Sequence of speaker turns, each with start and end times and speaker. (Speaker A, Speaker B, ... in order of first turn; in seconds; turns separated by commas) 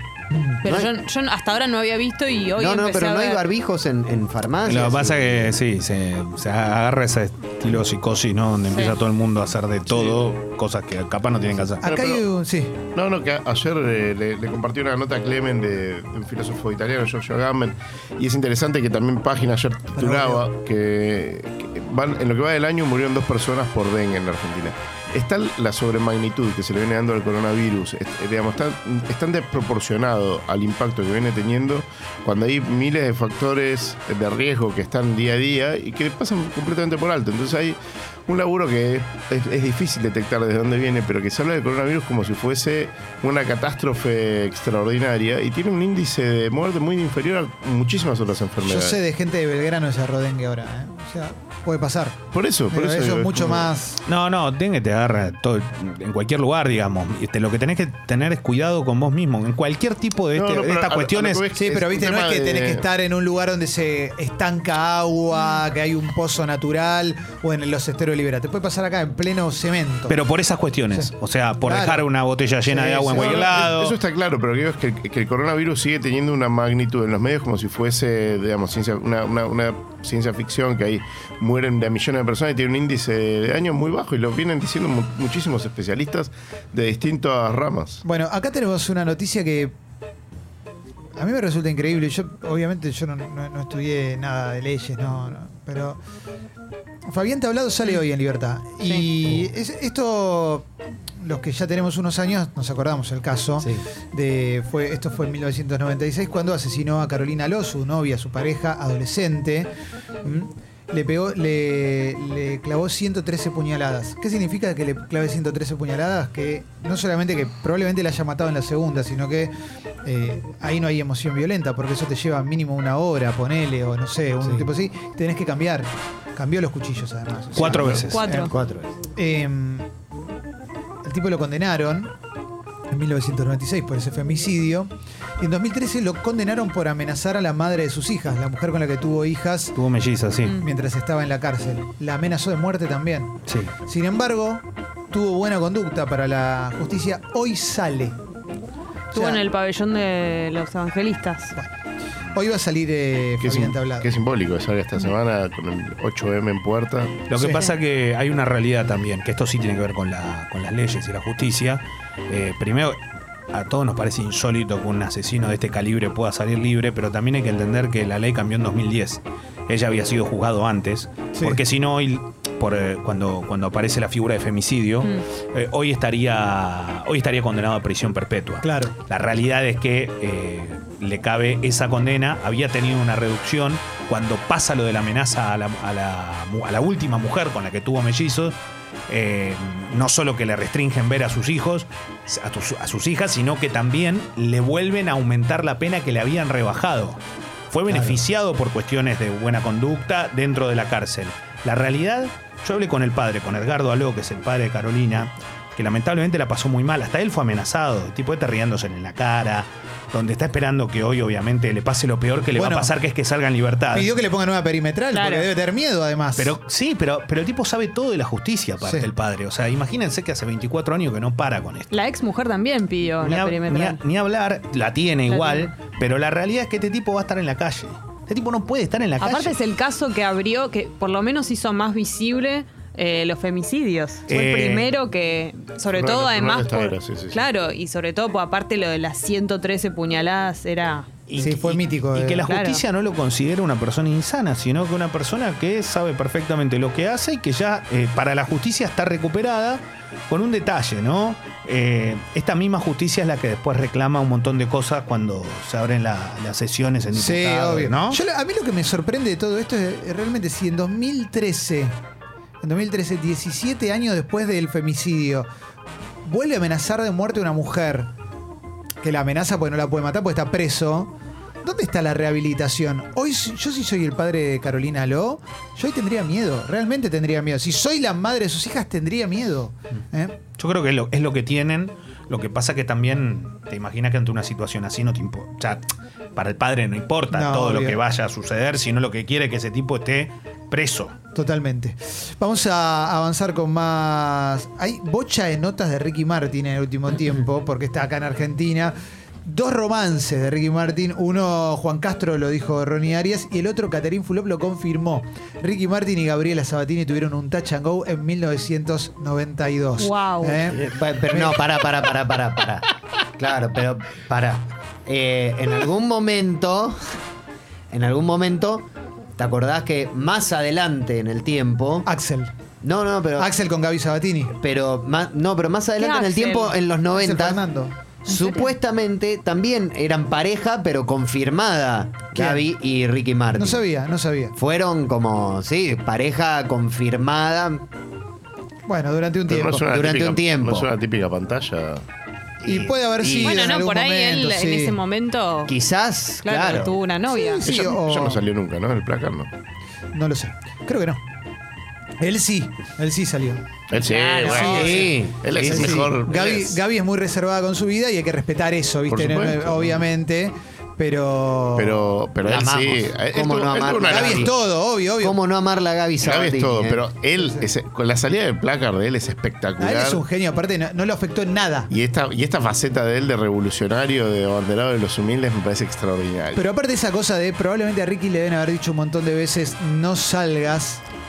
Speaker A: 0.6-0.9, Speaker B: 0.6-3.4, Speaker A: 2.6-5.6, Speaker C: 4.7-11.9, Speaker B: 8.7-9.0, Speaker D: 11.8-12.8, Speaker E: 11.9-12.2, Speaker E: 12.9-49.0, Speaker D: 20.0-20.4, Speaker D: 48.6-52.2, Speaker E: 52.3-53.7, Speaker D: 52.7-54.0, Speaker C: 54.1-61.5, Speaker E: 60.3-62.8, Speaker D: 61.5-70.2, Speaker C: 70.1-74.0, Speaker D: 71.6-72.1, Speaker D: 72.7-73.7, Speaker E: 73.1-88.0, Speaker D: 88.0-89.7, Speaker D: 91.2-96.0, Speaker D: 97.1-100.7, Speaker D: 101.2-109.7, Speaker D: 110.2-119.5, Speaker D: 120.0-128.6, Speaker C: 127.5-128.2, Speaker B: 128.0-128.5, Speaker A: 128.4-128.9, Speaker D: 129.2-129.9, Speaker D: 131.1-132.1, Speaker D: 132.9-139.8, Speaker C: 139.8-140.6, Speaker D: 140.6-148.2, Speaker C: 143.5-143.7, Speaker D: 149.1-149.4, Speaker B: 149.1-151.5, Speaker D: 152.3-154.1, Speaker E: 153.4-157.3, Speaker C: 157.3-163.0, Speaker B: 157.4-157.7, Speaker C: 163.5-188.6, Speaker D: 178.6-178.9, Speaker C: 189.1-214.2, Speaker D: 197.9-198.2, Speaker D: 212.5-212.9, Speaker D: 213.9-216.5, Speaker B: 215.1-215.5, Speaker C: 216.4-221.9, Speaker D: 218.8-219.1, Speaker B: 221.9-224.0, Speaker C: 223.2-229.6, Speaker B: 225.3-225.7, Speaker B: 229.2-241.1, Speaker C: 234.3-234.9, Speaker E: 235.9-237.5, Speaker C: 241.3-258.2, Speaker D: 241.4-242.4, Speaker B: 242.4-242.8, Speaker D: 257.1-261.9, Speaker D: 262.6-265.5, Speaker D: 266.2-268.1, Speaker D: 269.0-271.1, Speaker D: 271.6-280.4, Speaker C: 280.6-285.8, Speaker C: 286.4-291.2, Speaker D: 287.3-288.0, Speaker D: 291.3-311.7, Speaker B: 310.0-310.6, Speaker A: 310.7-312.8, Speaker A: 313.4-317.0, Speaker A: 317.9-318.9, Speaker A: 319.4-322.1, Speaker D: 322.1-322.5, Speaker A: 322.8-323.5, Speaker D: 323.4-324.5, Speaker A: 324.6-327.6, Speaker B: 326.0-326.8, Speaker D: 327.1-328.0, Speaker B: 328.3-328.7, Speaker A: 328.3-333.9, Speaker D: 332.4-332.6, Speaker D: 333.6-334.6, Speaker A: 334.6-337.9, Speaker D: 338.9-339.9, Speaker E: 339.5-342.0, Speaker A: 339.9-340.9, Speaker A: 342.6-343.7, Speaker D: 342.6-345.0, Speaker B: 343.4-345.7, Speaker A: 345.7-347.0, Speaker B: 346.4-347.6, Speaker D: 347.5-348.4, Speaker E: 347.6-349.5, Speaker D: 350.1-351.2, Speaker D: 352.2-353.6, Speaker E: 353.9-356.8, Speaker A: 354.3-356.2, Speaker D: 354.4-362.1, Speaker E: 359.1-360.0, Speaker E: 361.8-364.5, Speaker A: 362.4-364.5, Speaker D: 364.1-365.4, Speaker A: 365.2-367.0, Speaker E: 366.2-370.2, Speaker D: 367.4-367.7, Speaker D: 369.8-371.9, Speaker E: 371.9-376.6, Speaker D: 376.6-381.0